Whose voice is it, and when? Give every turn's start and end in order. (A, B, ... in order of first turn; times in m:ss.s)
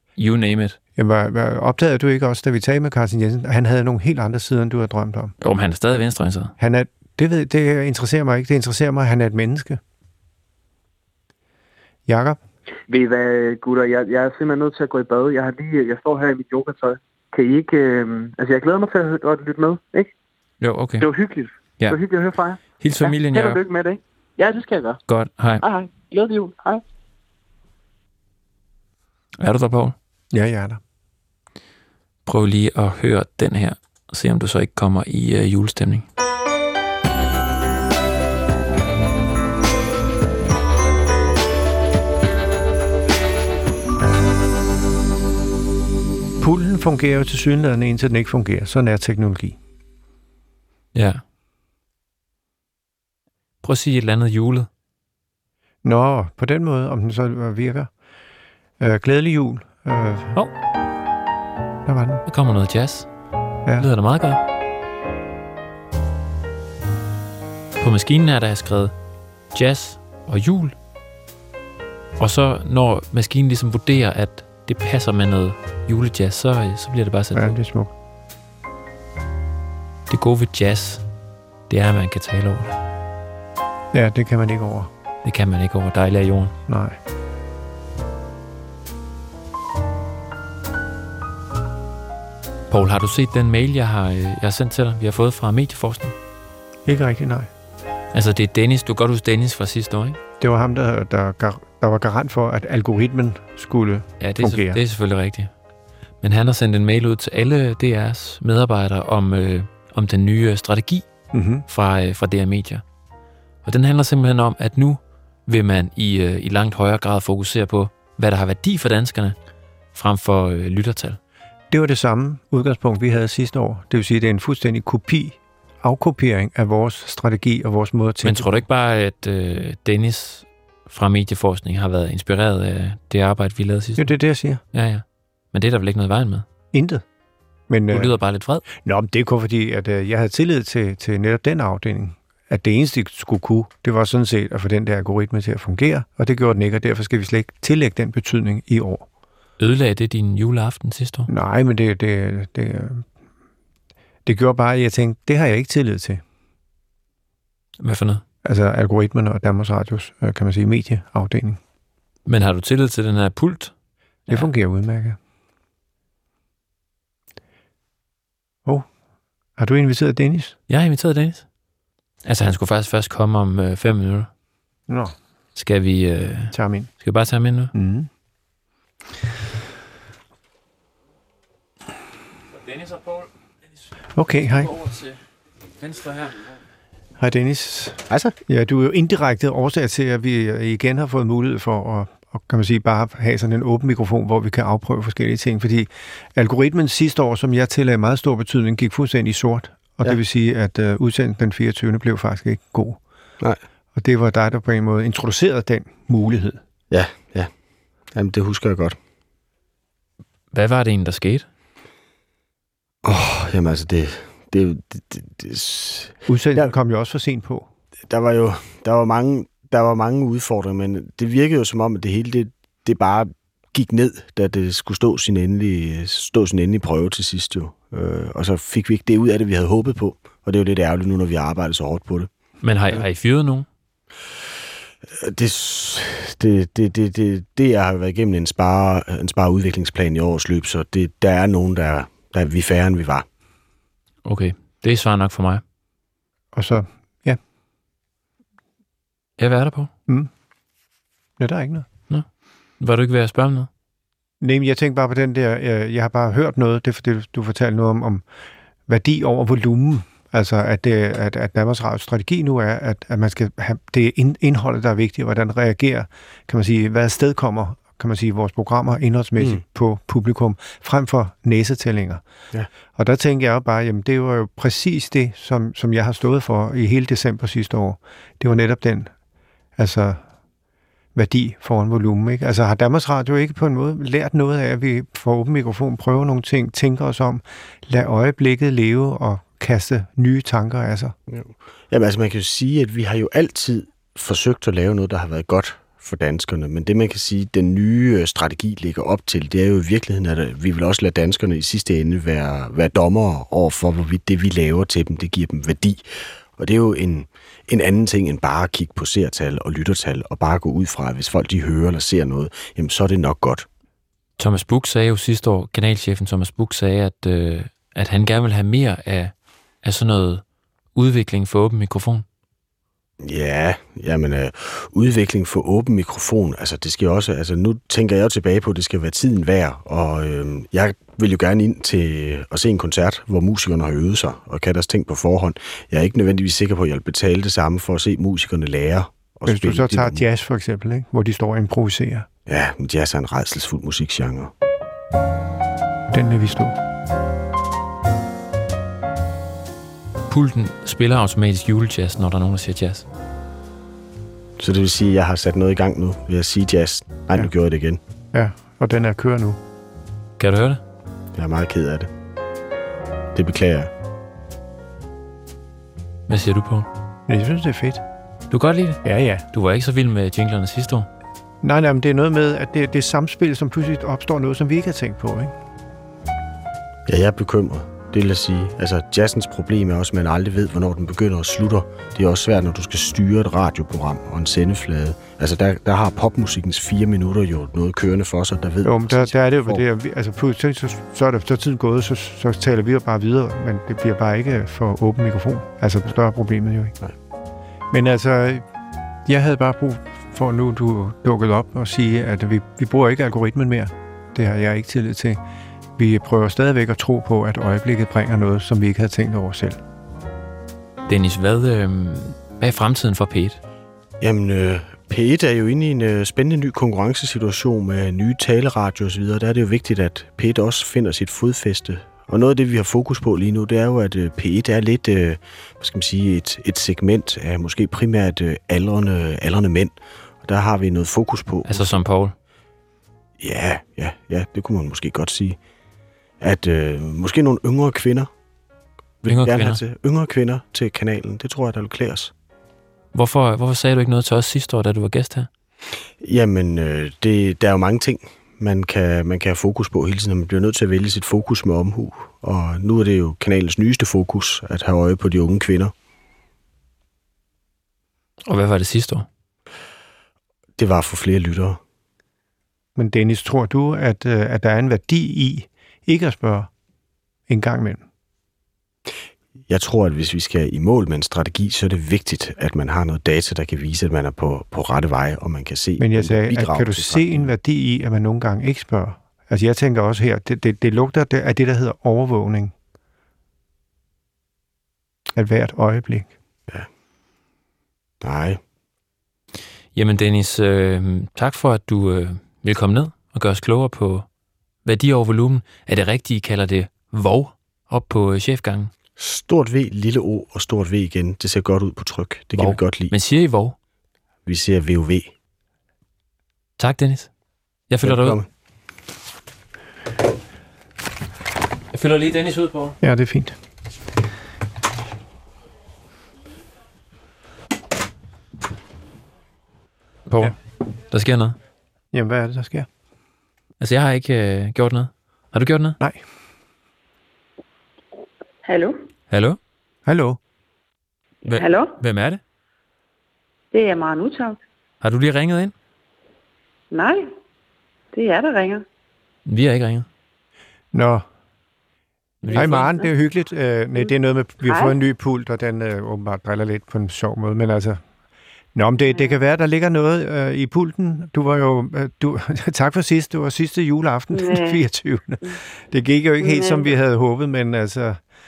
0:00.2-0:00.8 A
0:01.0-0:05.3 B
0:05.4-0:06.5 A
0:06.6-0:09.8 B
0:12.1-0:12.4 B
0:12.9-0:20.1 C
0:20.6-0:21.1 A
0:21.0-0:25.0 C
0:22.8-0:23.6 A
0:25.1-0:25.6 A
0:25.6-0:26.8 C
0:29.4-0:30.0 A
0:30.3-0:30.8 B
0:32.3-0:36.1 A
0:46.4-0:49.6 B
0:50.9-0:51.2 A
0:53.6-0:54.7 A
0:55.8-0:57.9 B
0:58.8-1:00.4 B
1:01.8-1:02.2 B
1:02.3-1:03.1 A
1:03.8-1:04.4 A
1:07.8-1:08.9 A
1:09.5-1:10.8 A
1:12.2-1:17.6 A
1:17.3-1:17.9 B
1:20.1-1:21.0 A
1:21.7-1:22.7 A
1:23.9-1:24.9 B
1:25.2-1:26.6 A
1:26.7-1:27.0 B
1:32.7-1:36.2 A
1:36.8-1:37.5 B
1:38.1-1:40.2 A
1:40.4-1:44.8 B
1:44.2-1:45.5 A
1:46.2-1:51.1 A
1:51.3-1:51.6 B
1:51.7-1:52.8 A
1:53.6-1:59.4 A
1:59.9-2:01.2 A
2:01.7-2:08.6 B
2:08.2-2:14.1 A
2:14.0-2:14.6 B
2:14.7-2:16.5 A
2:16.7-2:17.0 B
2:17.7-2:18.2 B
2:17.9-2:18.6 A
2:18.8-2:29.1 B
2:29.6-2:31.3 A
2:31.3-2:33.1 B
2:34.3-2:36.2 B
2:37.8-2:38.2 A
2:38.4-2:41.6 B
2:42.3-2:43.7 A
2:44.3-2:45.2 B
2:49.6-2:50.6 B
2:50.7-2:51.5 A
2:52.2-2:54.3 A
2:54.9-2:55.2 B
2:55.6-2:57.7 A
2:56.5-2:56.9 B
2:57.7-2:58.1 B
3:04.2-3:04.8 B
3:05.8-3:06.4 A
3:07.2-3:23.0 B
3:24.0-3:26.6 B
3:26.9-3:27.5 D
3:28.1-3:29.0 D
3:30.5-3:31.5 A
3:33.0-3:36.7 D
3:36.3-3:37.7 B
3:38.1-3:52.3 D
3:52.6-3:53.7 A
3:55.2-4:03.3 D
4:04.2-4:05.6 A
4:06.5-4:07.4 B
4:09.4-4:09.9 A
4:11.4-4:11.9 B
4:12.8-4:13.7 A
4:14.4-4:18.2 B
4:18.9-4:32.2 B
4:32.9-4:39.1 B
4:39.8-4:40.2 B
4:41.2-4:51.1 B
4:51.3-5:06.0 D
5:06.6-5:13.7 D
5:14.4-5:20.4 A
5:21.0-5:22.2 A
5:23.2-5:40.2 D
5:39.5-5:42.3 B
5:42.5-5:44.5 D
5:46.1-5:46.8 B
5:50.3-5:53.0 A
5:54.6-5:58.0 D
5:58.3-5:59.6 B
6:00.4-6:00.8 A
6:01.4-6:02.1 D
6:03.3-6:03.9 D
6:06.3-6:06.9 A
6:07.3-6:08.0 B
6:08.5-6:09.0 A
6:09.0-6:09.5 B
6:09.5-6:11.1 A
6:11.6-6:15.5 B
6:17.1-6:29.8 D
6:28.8-6:37.0 B
6:37.9-6:38.7 B
6:39.2-6:45.4 B
6:46.0-6:49.8 B
6:51.1-6:53.6 A
6:54.2-7:11.9 D
7:11.7-7:12.3 A
7:13.4-7:15.6 D
7:16.4-7:18.3 D
7:19.2-7:22.3 D
7:19.3-7:19.8 A
7:23.1-7:25.5 A
7:26.2-7:35.9 D
7:38.5-7:39.3 A
7:40.8-7:41.8 D
7:43.0-7:46.7 B
7:47.5-7:48.0 B
7:49.7-7:57.5 D
7:56.0-8:02.7 B
8:05.3-8:06.3 B
8:08.2-8:08.6 D
8:10.0-8:14.3 A
8:14.8-8:18.9 A
8:19.2-8:23.1 D
8:22.6-8:23.8 A
8:24.5-8:25.3 D
8:26.8-8:27.3 A
8:27.9-8:28.4 A
8:28.0-8:28.5 D
8:31.9-8:33.0 A
8:33.0-8:33.6 B
8:40.3-8:40.6 A
8:41.1-8:41.6 A
8:42.1-8:42.9 B
8:43.8-8:46.0 A
8:48.6-8:49.0 E
8:49.3-8:49.6 A
8:50.1-8:50.4 B
8:51.4-8:52.4 A
8:51.5-8:52.0 E
8:53.7-8:54.6 E
8:55.0-8:55.7 A
8:56.9-8:57.3 E
8:58.1-8:58.8 E
8:59.5-9:00.1 A
9:00.9-9:01.2 B
9:02.4-9:02.9 A
9:02.5-9:08.0 B
9:02.5-9:02.9 E
9:04.6-9:05.0 E
9:08.8-9:18.2 B
9:14.3-9:14.8 E
9:16.4-9:16.9 E